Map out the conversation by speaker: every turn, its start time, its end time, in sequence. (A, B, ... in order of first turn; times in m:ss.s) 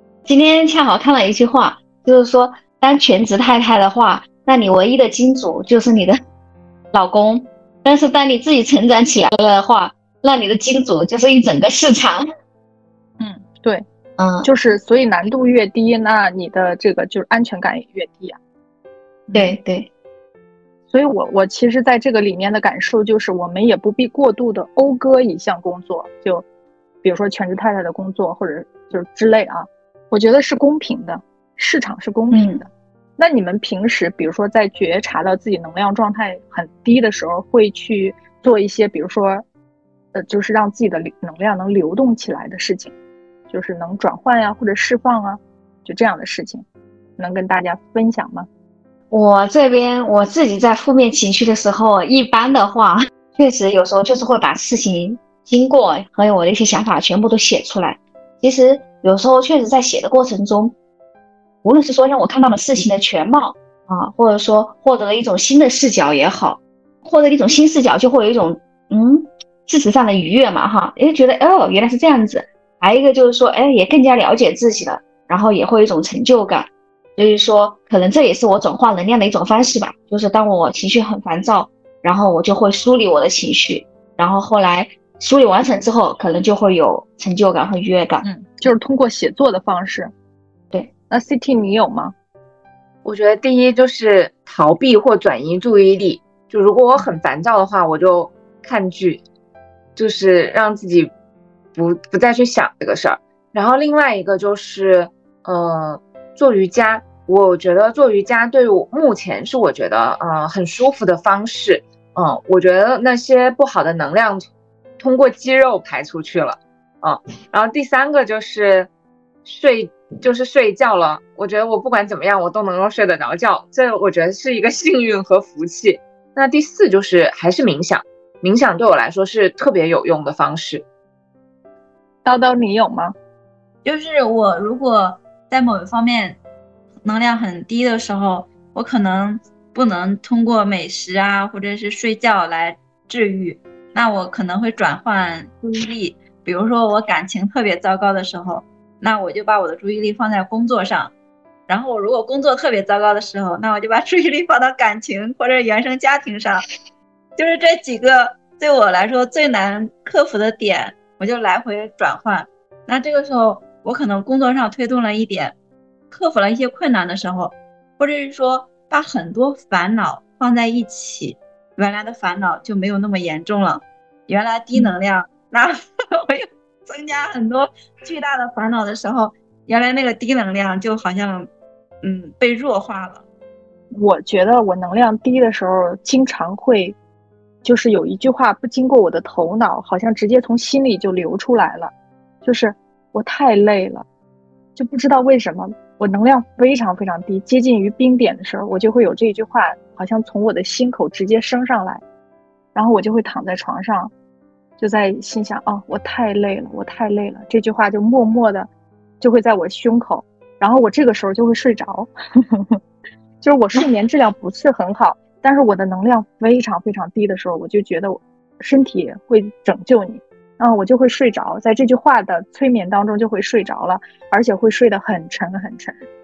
0:00.2-0:06.2 A
0:06.9-0:12.2 A
0:13.2-0:13.8 B
0:14.2-0:14.5 A
0:14.4-0:18.4 B
0:19.3-0:19.6 B
0:19.3-0:19.9 A
0:20.9-0:26.4 B
0:27.0-0:39.4 B
0:32.3-0:32.6 A
0:40.1-0:42.9 B
0:43.5-0:46.6 B
0:47.2-0:48.5 B
0:49.1-1:00.7 A
1:01.6-1:28.3 A
1:28.2-1:30.1 B
1:31.1-1:32.1 B
1:33.0-1:39.2 C
1:40.0-1:41.1 C
1:41.7-1:54.4 C
1:55.0-1:58.9 C
1:59.4-2:10.8 C
2:12.2-2:13.1 B
2:13.8-2:16.4 D
2:17.0-2:31.1 D
2:31.7-2:36.7 D
2:37.4-2:45.5 D
2:46.1-3:01.5 D
3:02.0-3:03.2 D
3:03.9-3:07.0 B
3:07.6-3:11.9 B
3:12.4-3:14.0 B
3:14.8-3:22.0 B
3:22.7-3:24.1 B
3:24.8-3:28.7 B
3:29.2-3:32.8 B
3:33.4-3:46.0 B